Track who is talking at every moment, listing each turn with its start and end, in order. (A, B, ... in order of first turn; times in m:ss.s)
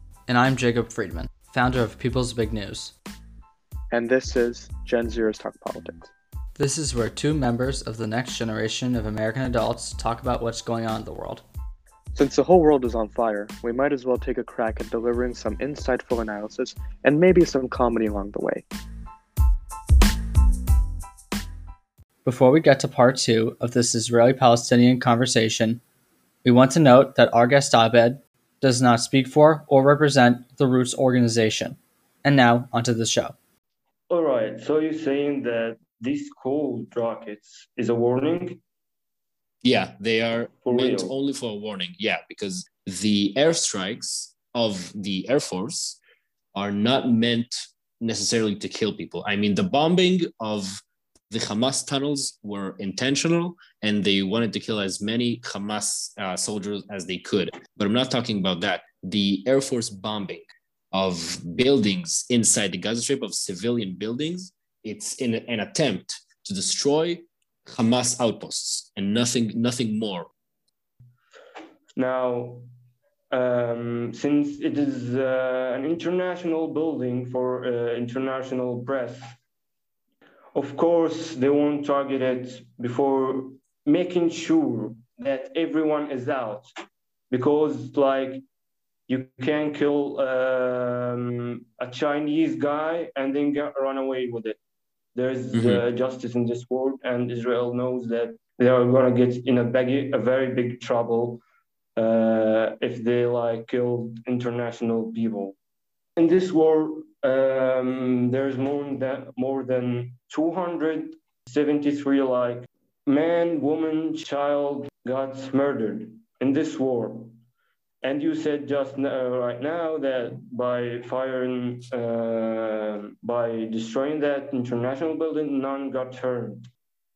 0:00.3-0:03.0 A
0:03.9-0:06.1 B
0:06.6-0:11.4 A
0:12.2-0:18.6 B
0:22.2-0:25.8 A
0:26.4-0:33.4 A
0:34.1-0:38.6 C
0:39.6-0:46.0 D
0:40.6-0:41.1 C
0:46.6-1:10.3 D
1:12.0-1:12.7 C
1:13.3-1:19.3 C
1:20.6-1:26.7 C
1:27.3-1:28.4 C
1:29.1-1:34.6 C
1:35.2-1:41.4 C
1:35.5-1:35.8 D
1:42.0-1:45.6 C
1:46.2-1:57.3 C
1:58.0-2:06.7 C